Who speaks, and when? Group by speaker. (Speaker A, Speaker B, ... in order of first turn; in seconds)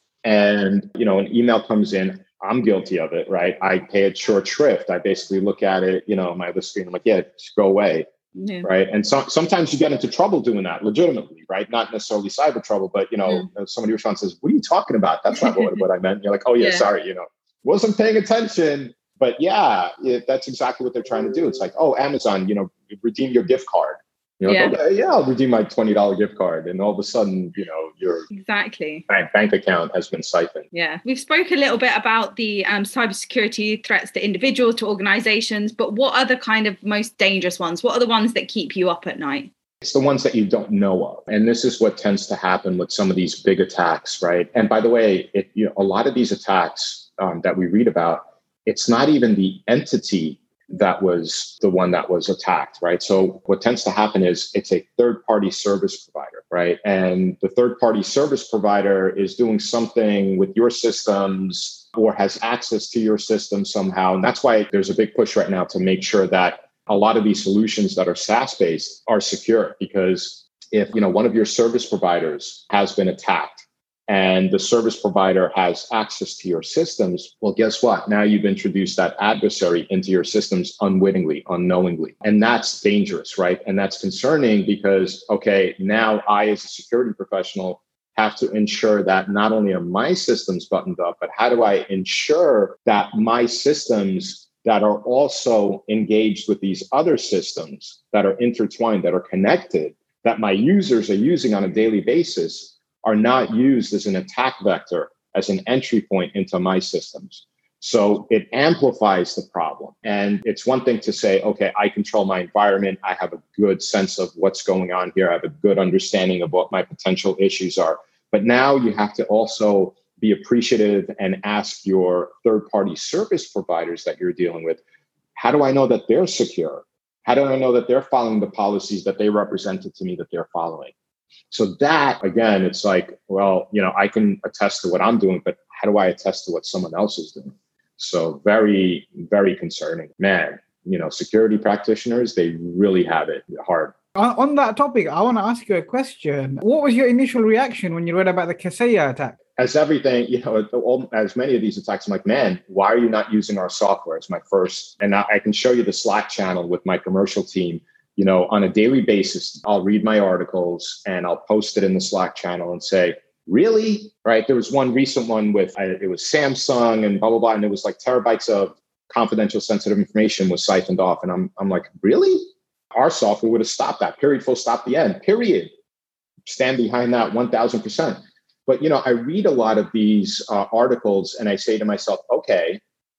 Speaker A: 0.2-8.1, 8.6-28.3, 29.1-30.7, 39.8-124.8, 125.3-130.9, 131.5-143.9, 149.6-175.7, 176.4-182.8
Speaker B: 8.4-8.7, 16.6-16.8, 24.5-24.8, 28.3-29.0, 30.7-39.5
Speaker C: 144.1-149.3